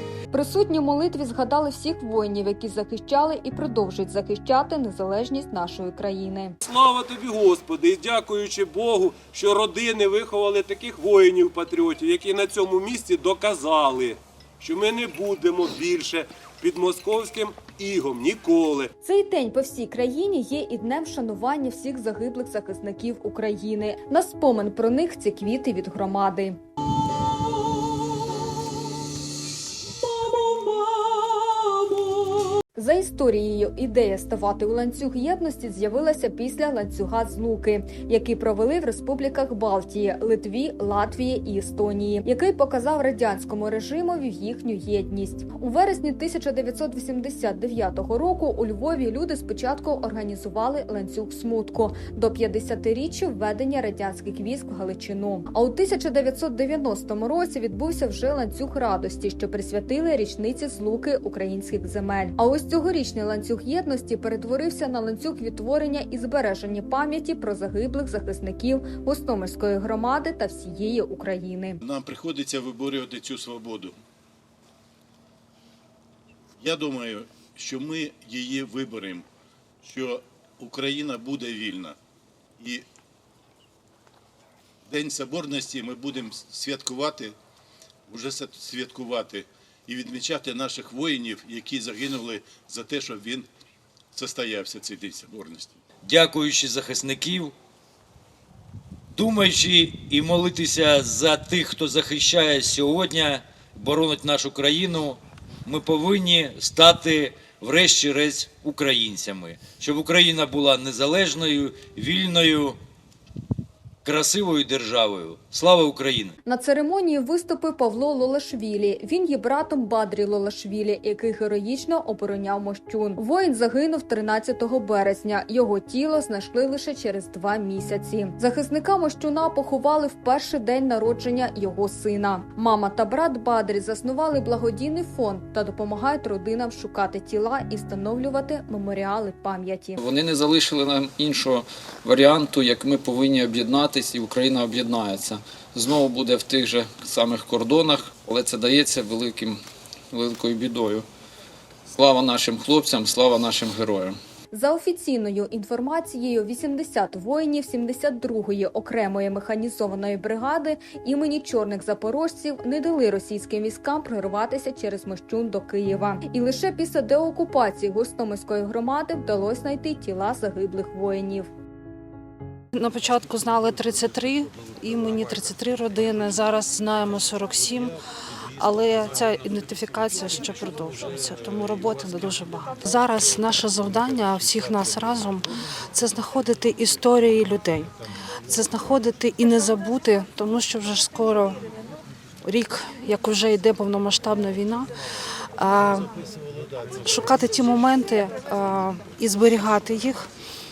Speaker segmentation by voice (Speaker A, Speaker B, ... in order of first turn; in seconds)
Speaker A: 0.3-6.5, 19.0-26.6, 32.8-71.8, 116.5-140.0, 154.5-171.5
Speaker B: 6.6-18.9
Speaker C: 71.8-74.0, 76.6-79.3, 79.8-82.0, 82.6-82.8, 84.9-87.3, 88.1-93.5, 94.1-95.8
Speaker D: 96.0-97.5, 99.2-112.8, 114.0-116.3
Speaker E: 140.0-149.6, 150.2-151.0, 152.2-154.2
Speaker F: 172.8-177.9, 178.6-187.9, 188.5-191.6, 192.4-194.9, 195.6-196.1, 197.1-200.3